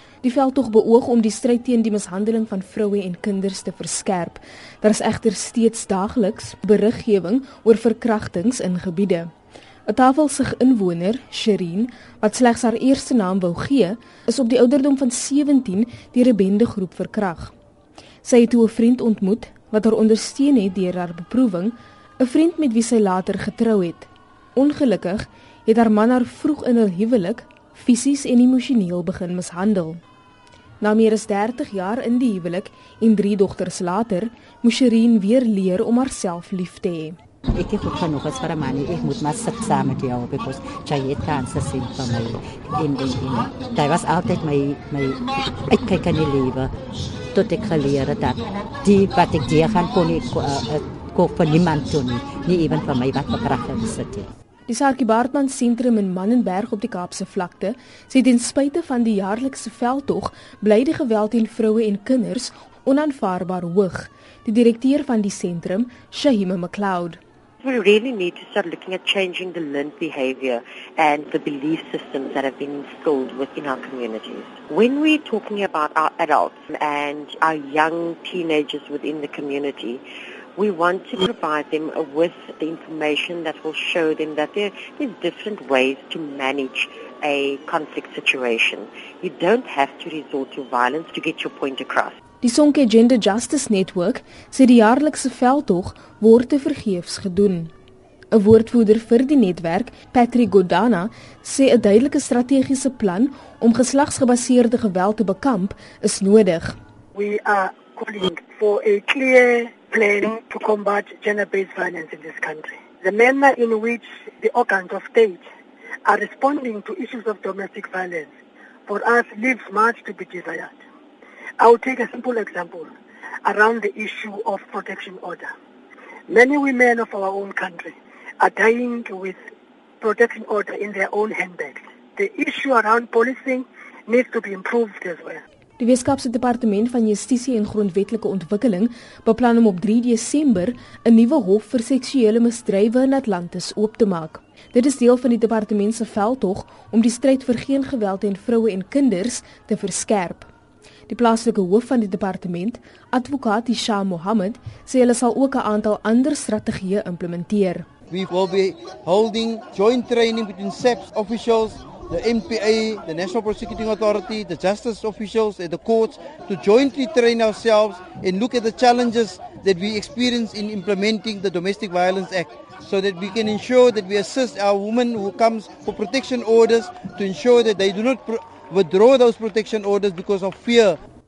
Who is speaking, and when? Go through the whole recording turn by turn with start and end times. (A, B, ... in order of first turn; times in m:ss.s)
0:00.2-0:09.3 A
0:09.9-0:17.5 A
0:18.2-0:30.0 A
0:30.8-0:37.2 A
0:37.5-0:46.7 B
0:47.3-0:54.3 B
0:54.7-1:07.2 A
1:07.6-1:20.0 C
1:20.6-1:32.2 C
1:32.4-1:37.7 A
1:38.3-1:46.8 A
1:47.1-1:55.4 D
1:56.1-1:58.3 D
1:58.9-2:00.8 D
2:01.6-2:02.9 D
2:03.4-2:05.5 D
2:06.3-2:09.4 D
2:10.0-2:15.4 D
2:15.8-2:30.5 A
2:31.1-2:37.9 A
2:38.1-3:01.0 E